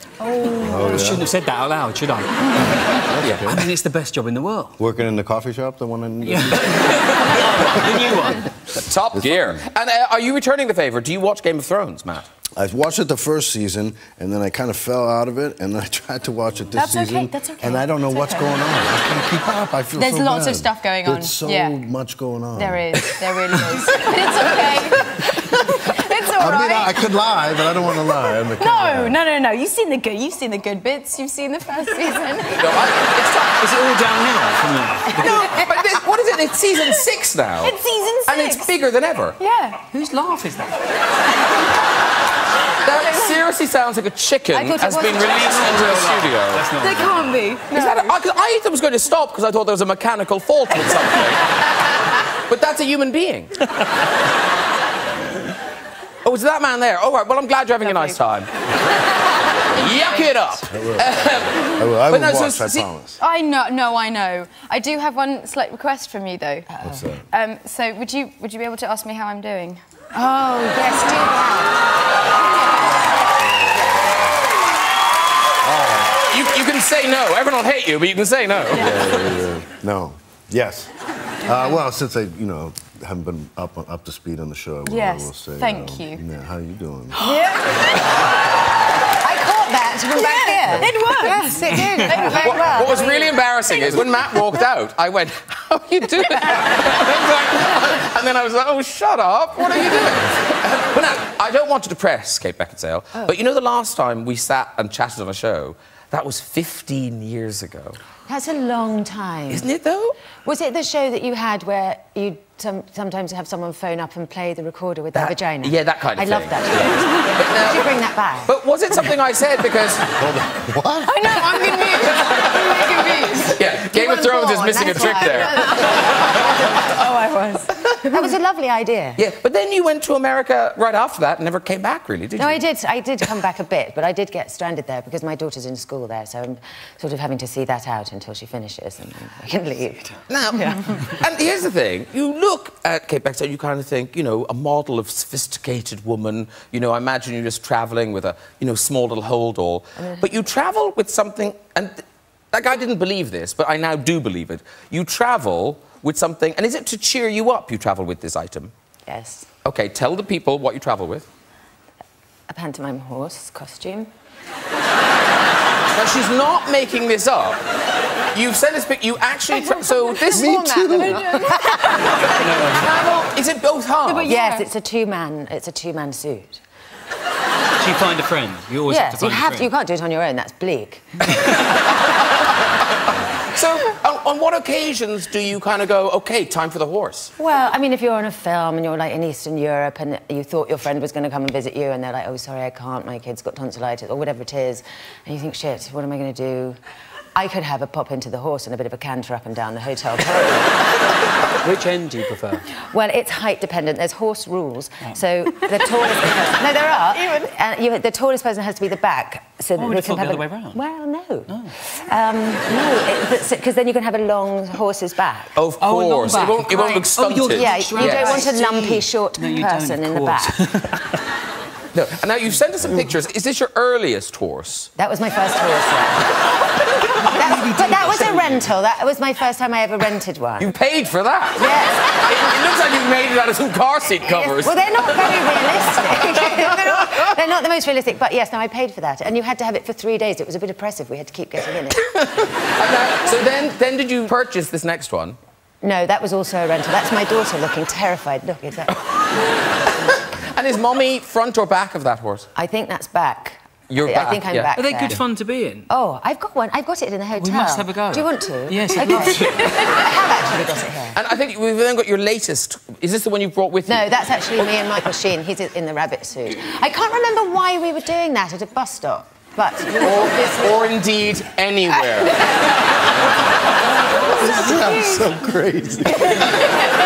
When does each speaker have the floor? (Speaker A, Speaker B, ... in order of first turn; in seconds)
Speaker A: 0.2-1.1, 59.9-60.3, 66.7-67.0, 70.1-71.8, 87.3-87.6, 89.2-93.4, 108.3-109.7, 110.4-118.5, 123.8-126.8, 128.1-129.2, 132.4-141.2, 150.0-150.3, 159.1-159.5, 162.5-164.1, 170.2-172.0, 174.2-176.6, 178.9-181.3, 187.4-196.8, 197.3-200.9, 202.8-215.6, 217.5-220.6, 225.0-226.4, 227.3-230.7, 231.6-232.4, 234.2-242.1, 245.8-249.0, 252.6-255.2, 255.9-261.2, 263.9-270.9
Speaker B: 0.6-1.3, 2.9-3.7, 4.8-8.3, 9.1-9.6, 12.6-23.1, 26.2-29.2, 60.6-63.2, 66.8-67.2, 73.7-74.1, 75.7-76.1, 78.7-80.9, 81.4-87.2, 120.2-121.5, 170.3-171.8, 274.2-276.8
Speaker C: 0.8-4.8, 6.2-8.5, 33.6-35.5, 39.9-40.8, 45.5-47.4, 172.2-173.0, 177.8-179.7, 201.6-202.7, 209.8-210.8, 211.5-211.7, 215.8-221.0, 227.1-228.6, 254.7-255.9, 257.3-260.0
Speaker D: 3.2-3.5, 8.7-12.3, 32.5-33.7, 35.1-39.4, 42.8-46.7, 47.7-53.6, 56.2-58.5, 59.6-62.9, 76.1-79.0, 91.9-108.0, 109.5-110.2, 115.1-117.9, 118.5-120.1, 121.9-126.9, 129.2-132.6, 140.3-158.7, 159.6-161.3, 165.9-167.6, 168.3-170.7, 172.6-174.4, 183.5-187.3, 215.6-218.6, 221.9-224.9, 230.6-237.3, 242.0-245.4, 250.3-252.5, 253.9-254.8, 261.1-264.7, 270.0-272.7
Speaker E: 16.7-18.6, 19.9-21.8, 22.6-27.0, 28.6-32.9, 35.3-35.6, 37.6-38.7, 39.4-39.8, 42.9-43.4, 44.5-45.7, 46.8-48.2, 57.8-58.1, 63.2-66.7, 67.3-69.8, 78.8-79.2, 84.9-86.2, 87.1-88.2, 90.1-93.1, 121.1-123.6, 124.9-128.3, 171.0-172.1, 174.1-174.7, 274.7-275.2